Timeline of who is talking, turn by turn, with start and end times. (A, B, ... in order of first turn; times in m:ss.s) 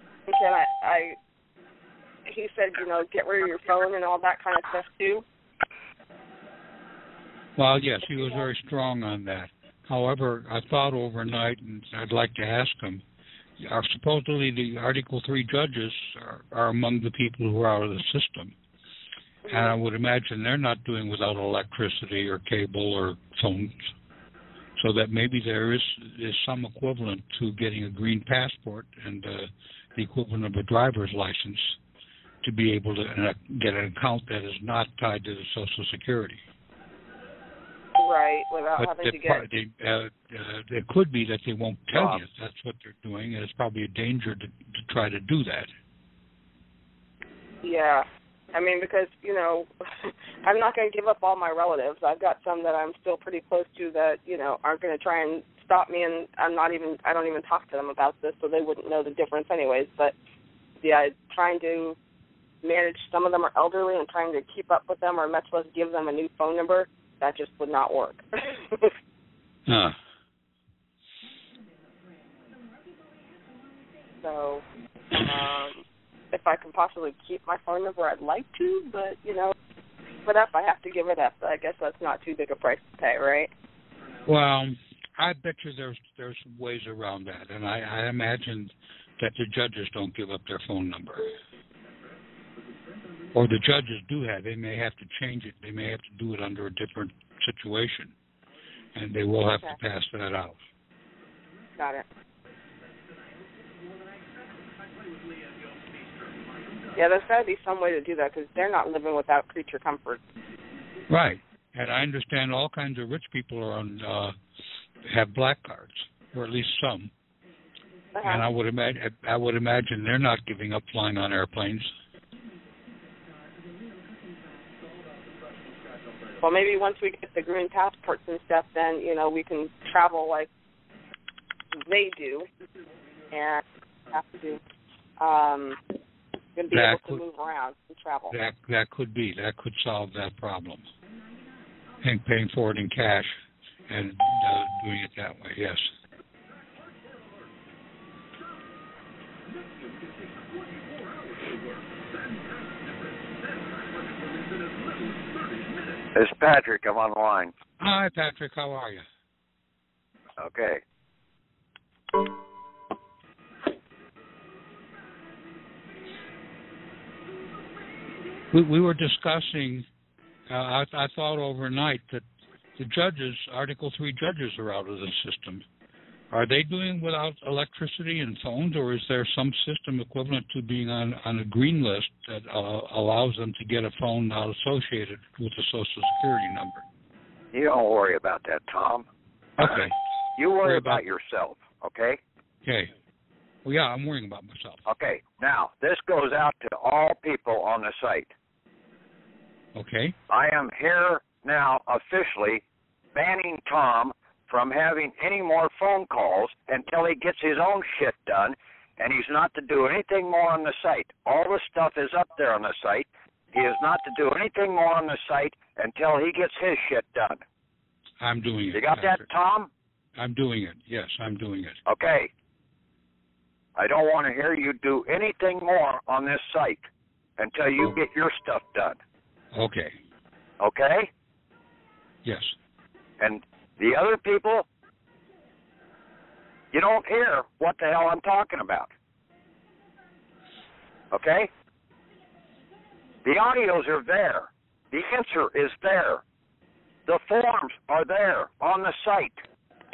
0:00.3-0:01.2 A
0:02.2-0:05.2 A
0:07.6-0:13.0 B
0:13.6-0:18.5 B
0:19.4-0:19.8 A
0:19.5-0:23.9 B
0:24.8-0:31.8 B
0:32.4-0:36.4 B
0:38.0-0:39.4 A
0:38.8-0:45.7 B
0:41.9-0:42.2 C
0:47.6-1:00.1 A
1:00.8-1:02.0 A
1:02.6-1:08.9 A
1:09.7-1:10.0 B
1:14.2-1:19.5 A
1:20.2-1:23.5 A
1:24.2-1:31.3 B
1:33.3-1:38.1 B
1:38.9-1:40.6 B
1:41.8-1:42.0 A
1:47.0-1:50.2 A
1:51.1-1:54.3 B
1:55.0-1:57.1 B
1:58.1-1:58.4 A
1:58.2-2:01.9 B
2:06.4-2:10.5 A
2:11.7-2:12.5 A
2:13.3-2:14.6 A
2:15.2-2:15.8 A
2:16.6-2:18.4 A
2:16.7-2:17.2 B
2:18.3-2:20.9 B
2:22.0-2:25.9 B
2:36.1-2:37.5 C
2:37.8-2:39.0 B
2:40.4-2:40.8 C
2:48.5-2:49.8 B
2:50.5-2:52.2 B
2:52.8-2:55.6 B
2:56.3-3:06.8 B
3:07.5-3:09.0 C
3:09.6-3:09.9 B
3:09.6-3:12.2 C
3:10.6-3:11.0 B
3:12.6-3:12.9 B
3:13.6-3:14.8 B
3:14.8-3:18.3 C
3:19.7-3:20.2 B
3:20.3-3:22.6 C
3:23.1-3:37.4 C
3:38.2-3:39.2 B
3:38.7-3:39.7 C
3:40.2-3:41.8 B
3:41.8-3:42.3 C
3:43.8-3:49.0 C
3:49.5-3:50.0 B
3:50.6-3:51.1 C
3:52.2-3:52.5 B
3:53.2-3:54.6 C
3:56.7-3:58.9 C
4:01.1-4:01.5 C
4:03.2-4:06.2 C
4:07.1-4:09.4 C